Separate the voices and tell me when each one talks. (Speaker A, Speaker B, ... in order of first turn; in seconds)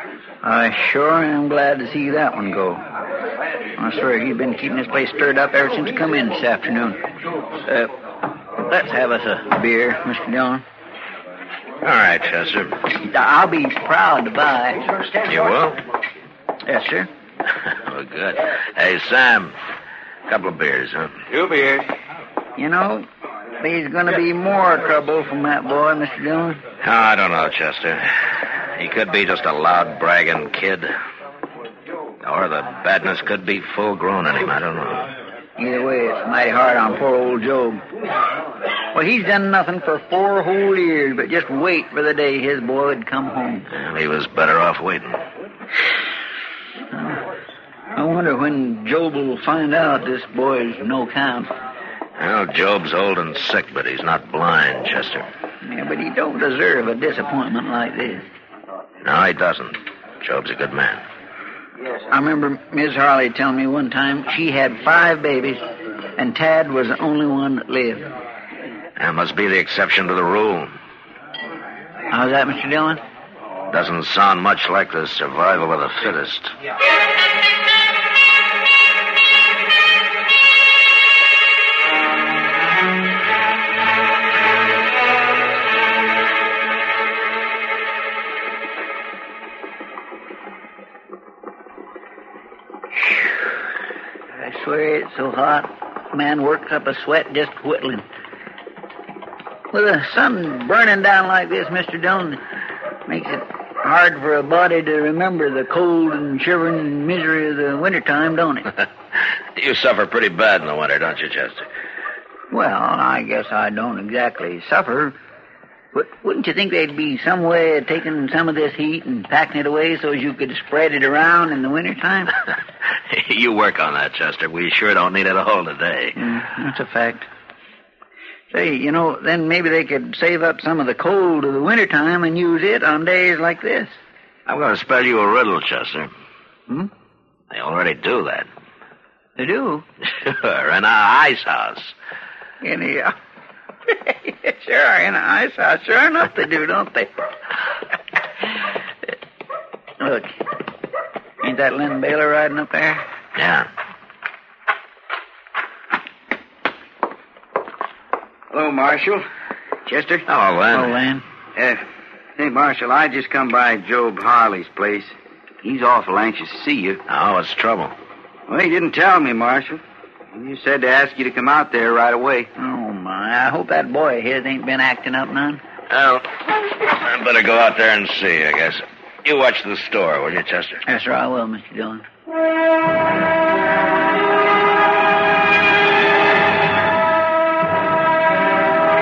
Speaker A: 0.4-2.8, 3.8-7.0, 7.6-7.9, 8.7-10.6, 13.0-14.8, 16.6-17.1, 22.6-23.1, 23.6-26.6, 35.6-37.8, 38.9-43.7, 46.9-47.2, 48.0-51.5, 55.6-58.3, 62.1-65.6, 66.2-68.1, 72.1-73.0, 94.4-98.1, 99.7-102.4, 103.1-108.7, 112.5-115.2, 115.9-122.3, 126.2-127.3, 128.5-133.9, 139.4-139.8, 142.6-143.2, 143.9-147.1, 150.0-150.4, 151.4-153.0, 160.7-161.2, 172.6-175.6, 180.8-182.1
Speaker B: 11.8-12.8, 15.2-15.8, 17.7-19.6, 20.3-21.4, 26.8-30.9, 32.2-35.1, 43.7-45.2, 52.2-55.3, 59.0-61.0, 69.0-70.8, 73.7-76.5, 109.5-111.7, 123.1-126.2, 134.5-136.1, 137.5-138.5, 140.0-141.9, 153.4-153.7, 160.3-161.0, 167.1-167.9, 175.9-180.8
Speaker C: 158.5-159.2, 159.9-160.2, 161.6-161.9, 162.4-167.0, 168.5-169.8, 170.3-172.5